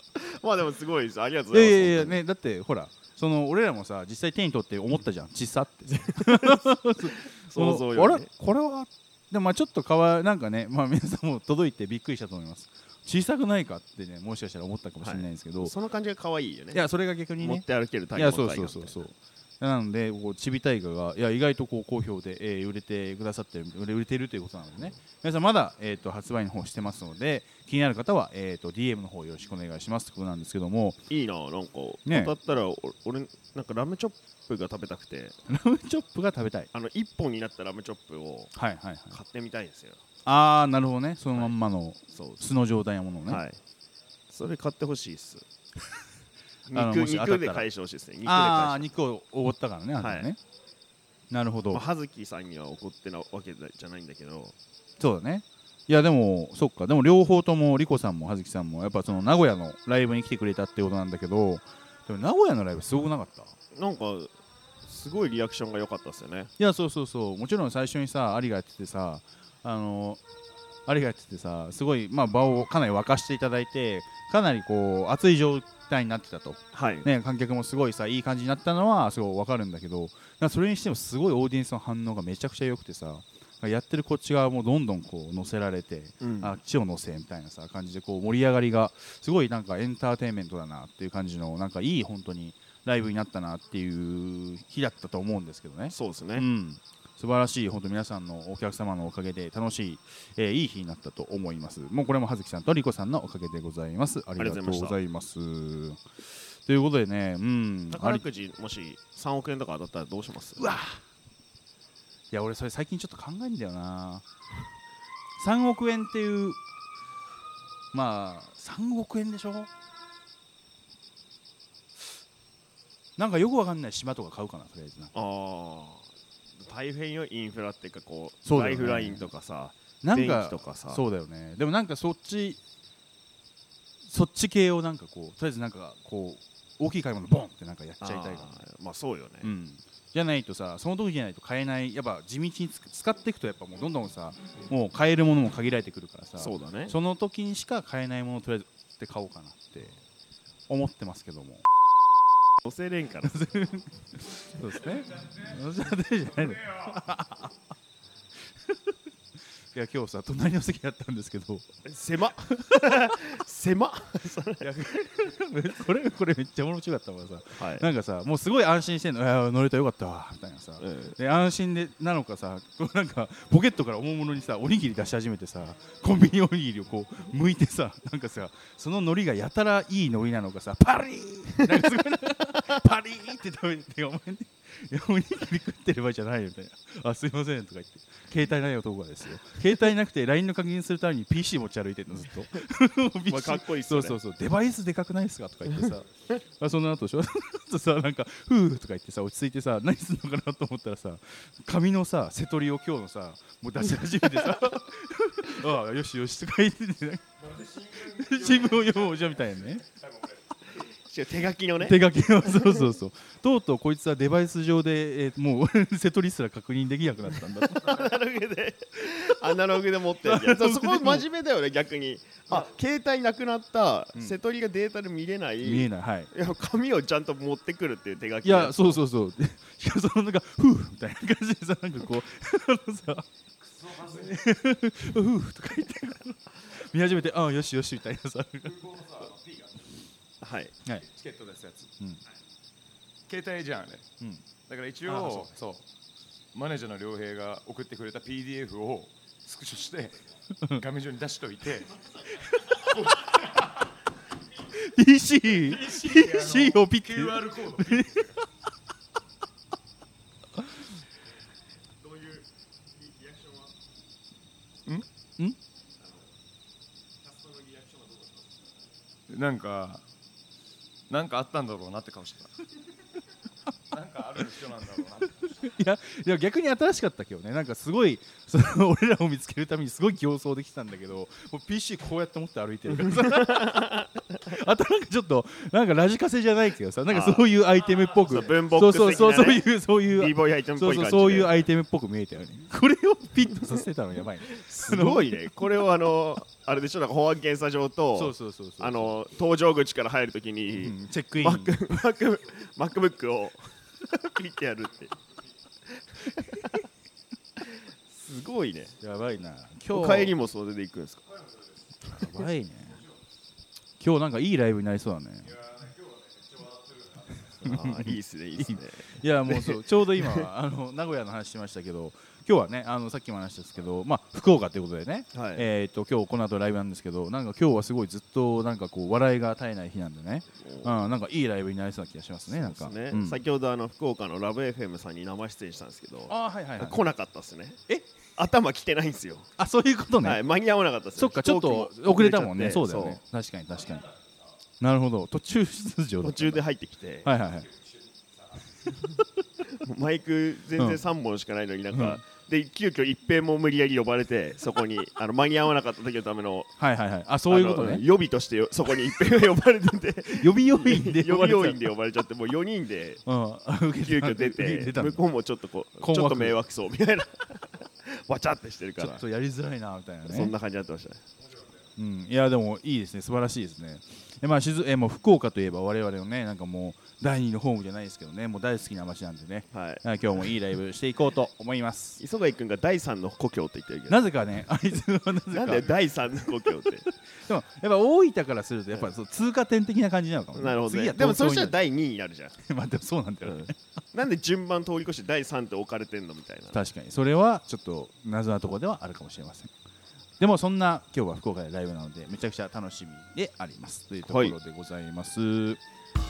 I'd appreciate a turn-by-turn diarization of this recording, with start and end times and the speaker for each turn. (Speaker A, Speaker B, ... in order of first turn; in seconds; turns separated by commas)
Speaker A: 0.1-2.2, Speaker B: 1.5-15.7, Speaker A: 5.9-8.3, Speaker A: 15.0-16.8, Speaker B: 16.7-31.0, Speaker A: 17.4-19.0, Speaker A: 31.1-35.4, Speaker B: 32.1-32.3, Speaker B: 35.5-36.7, Speaker A: 36.7-38.5, Speaker B: 38.5-39.2, Speaker A: 39.1-40.0, Speaker B: 40.2-43.4, Speaker A: 42.1-42.4, Speaker A: 43.3-43.6, Speaker A: 44.3-45.5, Speaker A: 46.7-48.9, Speaker B: 46.7-47.7, Speaker B: 48.2-50.4, Speaker A: 50.0-50.3, Speaker B: 51.3-51.8, Speaker A: 51.7-54.6, Speaker B: 55.0-63.5, Speaker A: 63.7-64.3, Speaker A: 64.8-66.5, Speaker B: 66.6-70.2, Speaker B: 70.9-106.0, Speaker A: 76.7-77.1, Speaker A: 86.2-86.6, Speaker A: 95.9-96.5, Speaker A: 104.4-105.0, Speaker B: 106.7-108.2, Speaker A: 107.9-110.7, Speaker B: 110.6-111.0, Speaker B: 112.3-114.2, Speaker B: 115.4-116.6, Speaker B: 117.9-119.7, Speaker B: 123.2-125.1, Speaker A: 125.1-131.0, Speaker B: 128.4-129.3, Speaker B: 130.0-132.6, Speaker B: 134.1-138.6, Speaker A: 138.0-139.5, Speaker B: 139.4-150.0, Speaker A: 146.4-146.9, Speaker B: 150.7-151.6, Speaker A: 152.6-153.4, Speaker B: 153.3-157.5, Speaker B: 159.7-161.7, Speaker A: 161.8-164.8, Speaker B: 162.6-163.0, Speaker B: 164.6-196.1, Speaker A: 167.6-167.9, Speaker A: 170.8-171.2, Speaker A: 193.3-194.2, Speaker B: 196.6-209.8, Speaker A: 204.2-204.6, Speaker C: 207.4-209.9, Speaker A: 211.1-212.9, Speaker B: 211.8-218.0, Speaker A: 217.6-229.0, Speaker B: 220.2-221.2, Speaker B: 225.6-226.3, Speaker B: 228.4-233.3, Speaker C: 233.7-234.3, Speaker B: 234.0-238.8, Speaker C: 238.6-239.9, Speaker A: 240.4-240.8, Speaker C: 241.1-241.9, Speaker C: 243.3-244.1, Speaker C: 244.7-245.8, Speaker B: 245.1-245.6, Speaker C: 246.5-250.2, Speaker C: 250.8-252.0, Speaker C: 252.8-253.6, Speaker B: 254.7-258.3, Speaker C: 255.6-258.3, Speaker A: 262.0-262.4, Speaker A: 263.2-263.7, Speaker C: 269.3-270.0, Speaker C: 271.1-272.5, Speaker C: 273.9-275.7, Speaker B: 275.6-283.9, Speaker A: 282.9-284.2, Speaker B: 284.4-295.6, Speaker A: 287.1-287.5, Speaker A: 288.1-291.6, Speaker A: 294.4-305.1, Speaker B: 298.1-299.2, Speaker B: 300.8-302.0, Speaker A: 305.9-306.8, Speaker A: 307.6-308.9, Speaker B: 309.0-310.3, Speaker A: 309.9-311.3, Speaker B: 312.1-313.0, Speaker B: 314.0-315.6, Speaker C: 315.5-317.6, Speaker A: 317.6-320.5, Speaker B: 317.6-333.4, Speaker A: 325.3-325.7, Speaker A: 330.6-331.0, Speaker A: 332.5-337.8, Speaker B: 336.3-337.0, Speaker A: 338.4-339.5, Speaker B: 339.6-340.4, Speaker A: 340.2-343.2, Speaker B: 341.2-344.1, Speaker B: 344.8-346.6, Speaker A: 346.2-347.3, Speaker B: 347.2-347.7, Speaker C: 347.7-348.6, Speaker A: 349.7-356.7, Speaker B: 351.9-352.2, Speaker B: 356.8-358.0, Speaker A: 357.5-363.2, Speaker B: 360.3-361.9, Speaker B: 363.3-365.2, Speaker A: 364.0-369.2, Speaker B: 366.0-366.6, Speaker B: 369.0-370.5, Speaker A: 370.3-371.2, Speaker B: 372.0-382.2, Speaker A: 379.7-380.0, Speaker A: 382.2-384.3, Speaker B: 384.1-385.9, Speaker A: 385.5-387.1, Speaker B: 387.3-391.8, Speaker A: 390.6-392.6, Speaker B: 392.6-393.8, Speaker A: 393.4-396.8, Speaker B: 396.7-399.7, Speaker B: 400.4-405.8, Speaker A: 404.2-404.6